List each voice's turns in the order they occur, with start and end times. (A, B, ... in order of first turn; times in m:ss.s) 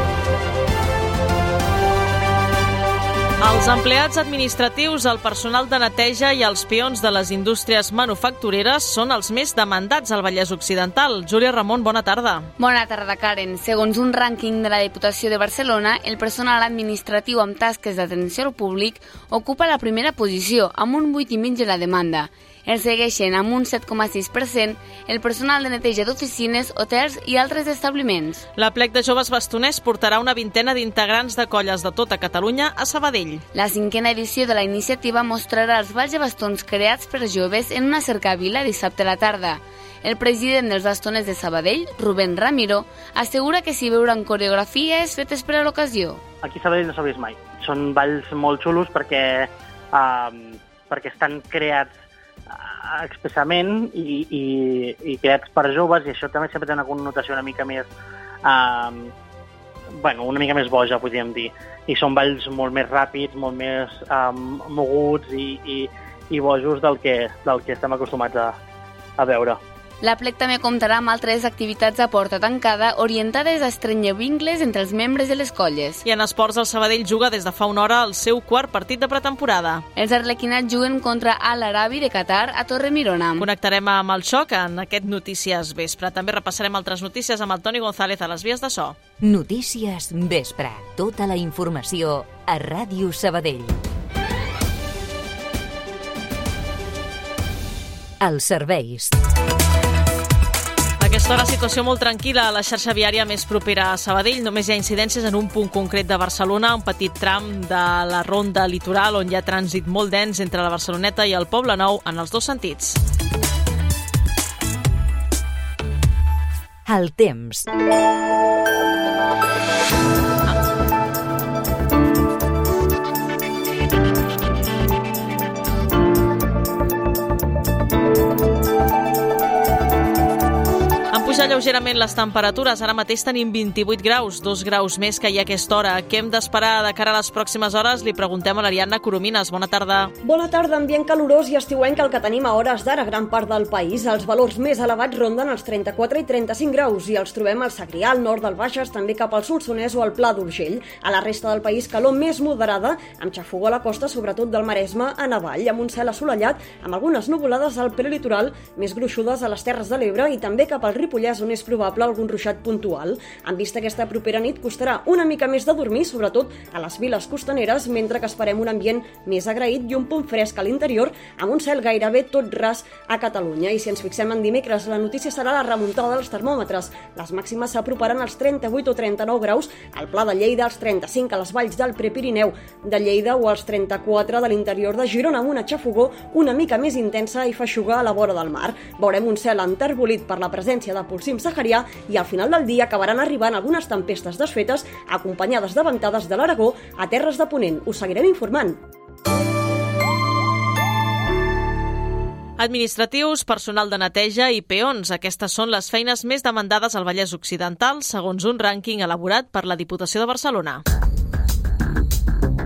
0:03.4-0:12.5 A
0:12.6-0:28.4 B
0:28.6-0:33.4 A
0:33.5-0:46.2 B
0:46.4-0:51.9 C
0:52.5-0:57.9 C
0:58.4-0:59.1 C
1:00.0-1:08.6 C
1:09.2-1:09.6 C
1:10.0-1:16.0 B
1:16.0-1:19.8 A
1:20.0-1:23.4 B
1:23.4-1:29.0 A
1:29.2-1:33.8 D
1:38.2-1:39.1 D
1:41.0-1:53.0 A
1:56.9-1:57.7 D
2:11.1-2:20.1 A
2:20.2-3:18.8 E
3:22.6-3:30.8 A